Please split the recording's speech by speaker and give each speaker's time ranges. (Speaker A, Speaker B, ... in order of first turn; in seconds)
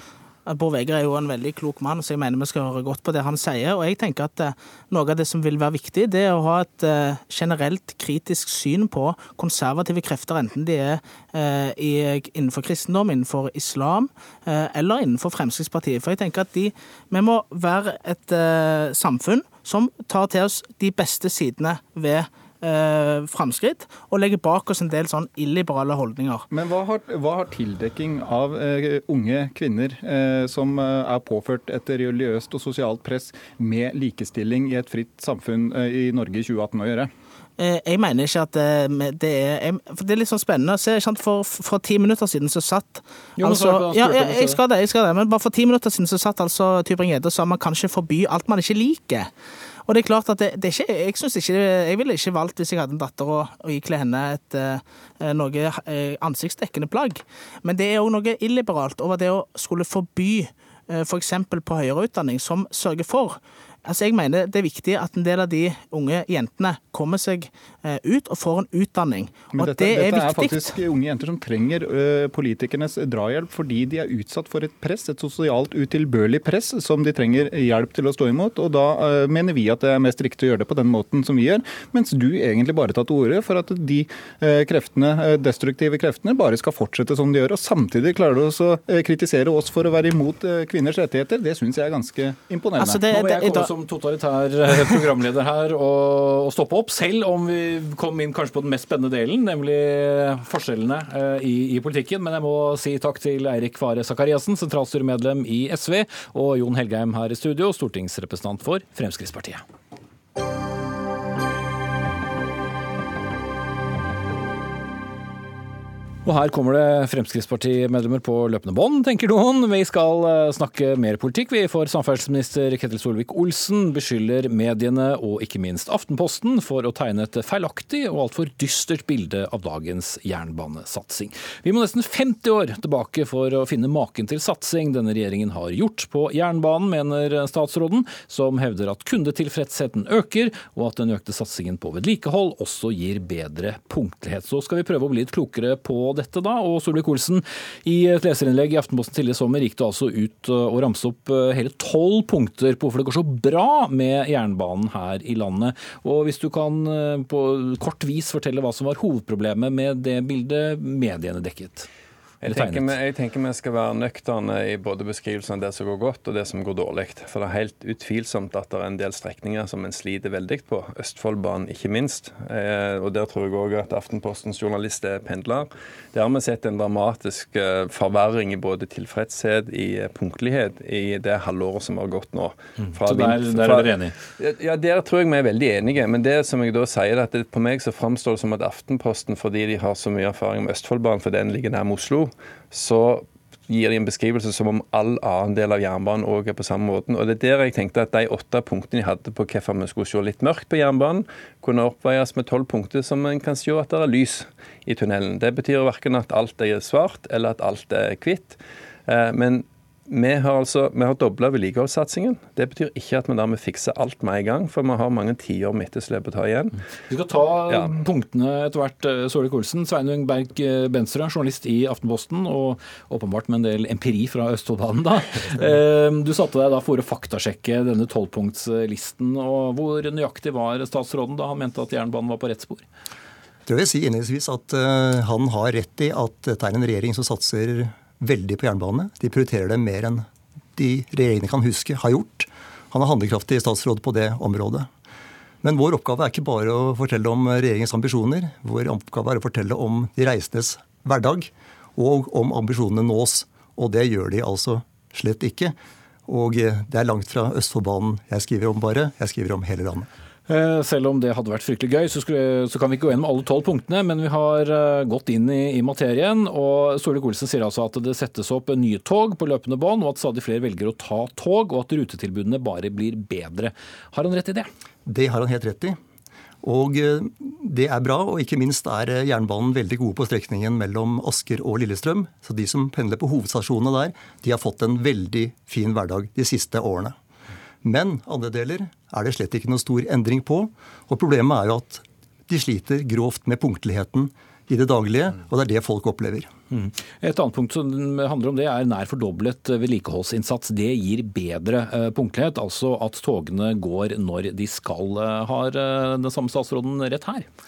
Speaker A: 0.5-26.5, 37.6-49.3, 49.9-70.8, 92.8-93.7
Speaker B: 26.5-37.1, 69.5-93.0
Speaker C: 43.4-44.6, 93.0-109.6, 116.2-161.9, 162.4-162.9, 182.9-184.1, 217.1-232.8, 260.5-274.7, 296.7-307.5
Speaker D: 162.4-216.8, 217.7-218.0
Speaker E: 233.7-244.9, 245.6-255.8, 256.3-260.1, 275.1-276.0, 276.6-287.2, 287.8-296.5